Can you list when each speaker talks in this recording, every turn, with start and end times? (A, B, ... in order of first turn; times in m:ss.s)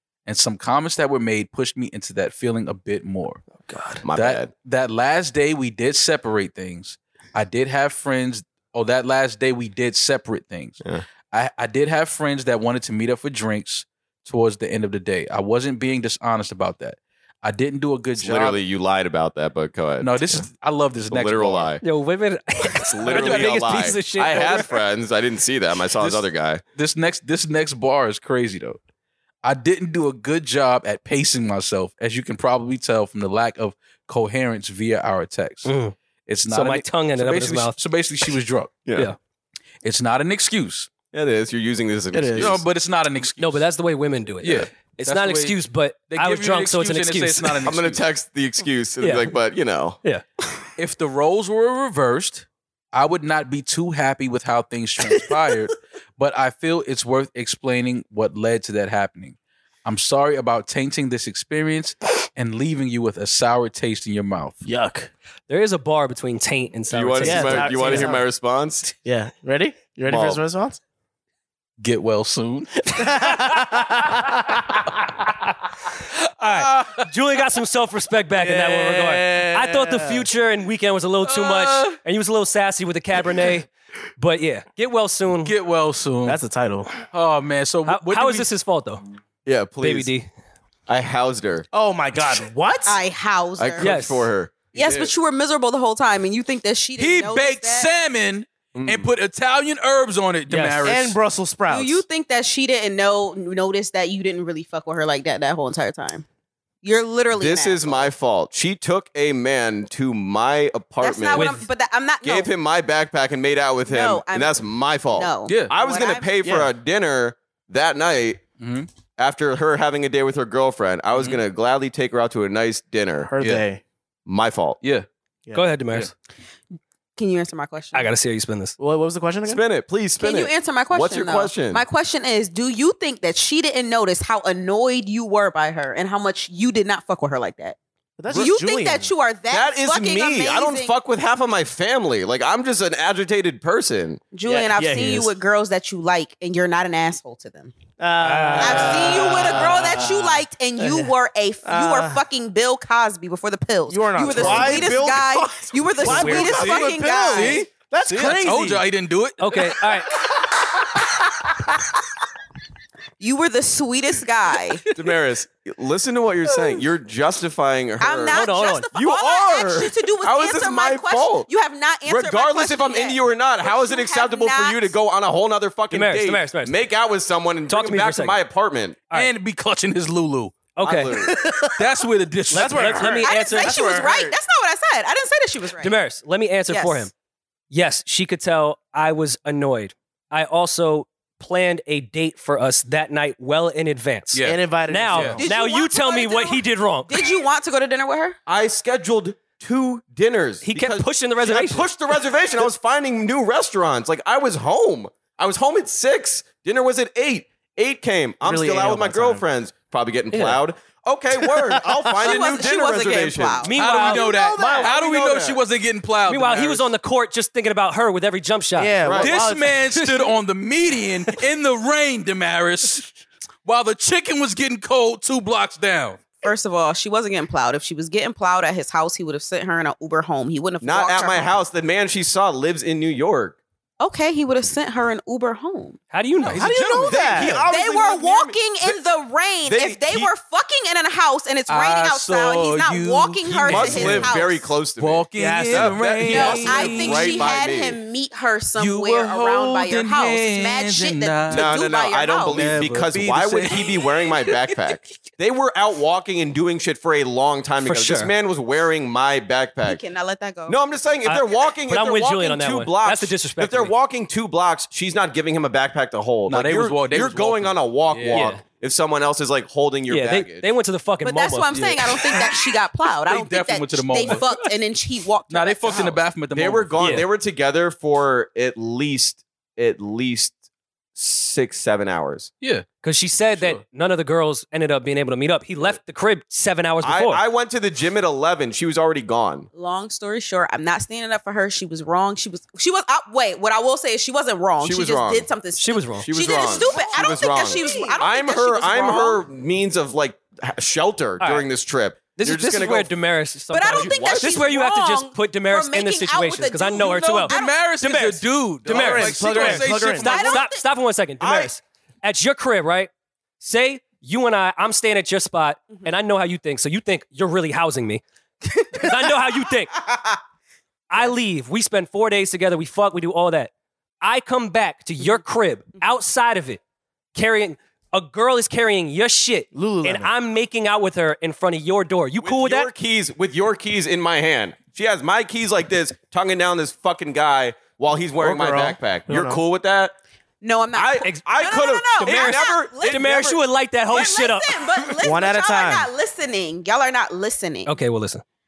0:00.2-0:03.4 A
0:03.6-0:04.0 B
0:04.0-0:04.5 C
0:04.1-0:18.6 A
0:18.2-0:20.4 C
0:20.0-0:21.7 A
0:21.1-0:21.8 C
0:21.8-0:24.7 D
0:22.8-0:26.6 C
0:23.0-0:23.8 A
0:26.0-0:28.8 A
0:29.4-0:35.7 A
0:35.6-0:35.9 D
0:36.3-0:38.8 A
0:36.5-0:37.8 D
0:38.8-0:39.1 C
0:39.8-0:40.9 A
0:41.1-0:42.6 C
0:42.1-0:42.6 B
0:42.4-0:43.6 A
0:43.4-0:47.6 D
0:44.4-0:45.6 A
0:46.1-0:48.0 A
0:47.6-0:50.0 C
0:49.0-0:49.3 D
0:50.8-1:04.6 A
1:04.6-1:05.1 B
1:05.5-1:08.2 D
1:06.9-1:08.9 C
1:07.2-1:08.2 B
1:09.0-1:10.8 B
1:10.1-1:10.4 C
1:11.8-1:13.3 A
1:12.9-1:14.8 B
1:16.4-1:25.5 D
1:16.4-1:17.1 A
1:18.3-1:20.2 B
1:21.2-1:22.0 A
1:25.4-1:26.4 A
1:26.2-1:27.0 B
1:27.1-1:28.5 A
1:27.9-1:29.0 D
1:29.4-1:30.1 C
1:29.8-1:30.3 D
1:30.9-1:31.6 C
1:31.7-1:33.0 B
1:32.8-1:33.9 E
1:33.6-1:35.1 C
1:33.8-1:34.3 D
1:34.7-1:37.9 E
1:37.0-1:41.2 A
1:38.7-1:39.1 C
1:40.5-1:40.8 D
1:40.8-1:42.0 B
1:41.7-1:46.2 E
1:46.8-1:48.1 E
1:47.3-1:51.6 C
1:51.0-1:52.5 E
1:51.3-1:51.6 D
1:52.2-1:58.4 C
1:53.9-1:56.3 E
1:55.4-1:55.7 A
1:56.4-1:56.7 B
1:58.6-1:58.9 A
1:59.2-2:03.3 C
2:03.2-2:03.8 B
2:03.4-2:03.6 A
2:04.2-2:04.8 C
2:04.8-2:05.1 A
2:05.5-2:06.1 D
2:07.2-2:08.1 E
2:07.9-2:08.8 D
2:08.8-2:09.6 B
2:09.5-2:11.8 C
2:10.2-2:17.8 E
2:18.2-2:19.1 B
2:18.3-2:20.9 E
2:19.5-2:24.2 C
2:24.3-2:27.7 E
2:24.5-2:25.3 B
2:28.0-2:31.1 B
2:28.2-2:29.6 D
2:28.6-2:37.7 E
2:31.6-2:32.2 B
2:33.9-2:38.8 B
2:34.3-2:34.8 A
2:36.0-2:36.7 D
2:36.4-2:39.8 A
2:39.4-2:40.1 D
2:40.4-2:41.5 B
2:43.2-2:44.8 E
2:44.9-2:51.5 C
2:48.0-2:54.9 E
2:48.3-2:48.9 D
2:52.0-2:59.0 C
2:55.9-2:56.7 D
2:57.7-2:58.4 D
2:59.1-3:00.6 A
3:00.7-3:01.3 D
3:00.8-3:01.4 C
3:01.2-3:01.9 B
3:01.7-3:03.1 A
3:02.5-3:04.4 B
3:02.5-3:03.8 D
3:03.2-3:05.9 E
3:05.8-3:07.1 D
3:06.7-3:07.1 E
3:07.7-3:17.3 D
3:14.3-3:14.6 A
3:14.4-3:15.5 B
3:15.1-3:15.4 A
3:15.4-3:18.4 E
3:18.5-3:33.6 C
3:20.6-3:21.9 D
3:28.4-3:29.4 B
3:32.2-3:33.8 E
3:33.6-3:34.9 D
3:33.7-3:36.9 A
3:33.9-3:35.0 B
3:34.8-3:35.6 C
3:36.3-3:39.1 D
3:38.8-3:39.9 B
3:39.0-3:39.4 C
3:39.2-3:43.1 A
3:39.9-3:40.2 D
3:43.6-3:46.2 A
3:46.4-3:51.5 E
3:50.8-3:53.6 C
3:54.0-3:56.0 E
3:56.1-3:57.0 D
3:56.4-3:57.5 A
3:56.6-3:57.7 B
3:57.0-3:59.0 C
3:57.3-4:04.7 E
3:59.6-4:00.3 C
4:01.7-4:04.3 A
4:03.5-4:08.0 C
4:05.0-4:07.4 A
4:05.4-4:06.7 B
4:06.2-4:12.7 E
4:08.8-4:11.7 A
4:11.5-4:20.0 C
4:12.5-4:13.9 A
4:17.8-4:18.3 D
4:19.8-4:20.8 E
4:20.7-4:30.6 C
4:21.2-4:23.9 D
4:26.5-4:28.5 A
4:28.3-4:28.6 D
4:30.1-4:31.8 D
4:31.2-4:36.2 E
4:31.7-4:32.6 A
4:33.2-4:34.6 A
4:35.5-4:37.2 A
4:36.5-4:40.5 C
4:37.0-4:37.2 D
4:41.2-4:42.5 C
4:43.0-4:47.4 D
4:43.6-4:43.8 A
4:47.0-4:49.7 C
4:49.7-4:59.4 E
4:54.8-4:55.5 C
4:55.8-4:57.0 D
4:56.2-5:03.1 C
4:57.8-4:58.2 D
5:01.4-5:01.6 D
5:02.4-5:13.1 D
5:03.7-5:07.8 E
5:03.8-5:04.6 C
5:07.5-5:10.7 A
5:08.8-5:10.3 B
5:10.2-5:10.8 E
5:11.4-5:11.7 C
5:13.6-5:18.2 D
5:18.8-5:19.9 D
5:21.1-5:23.7 D
5:24.2-5:26.8 D
5:27.3-5:32.9 D
5:29.7-5:30.3 B
5:32.4-5:40.1 C
5:38.4-5:39.6 B
5:40.6-5:43.4 E
5:40.9-5:43.6 C
5:42.2-5:45.1 D
5:44.1-5:47.9 E
5:45.2-5:46.1 B
5:47.8-5:48.4 D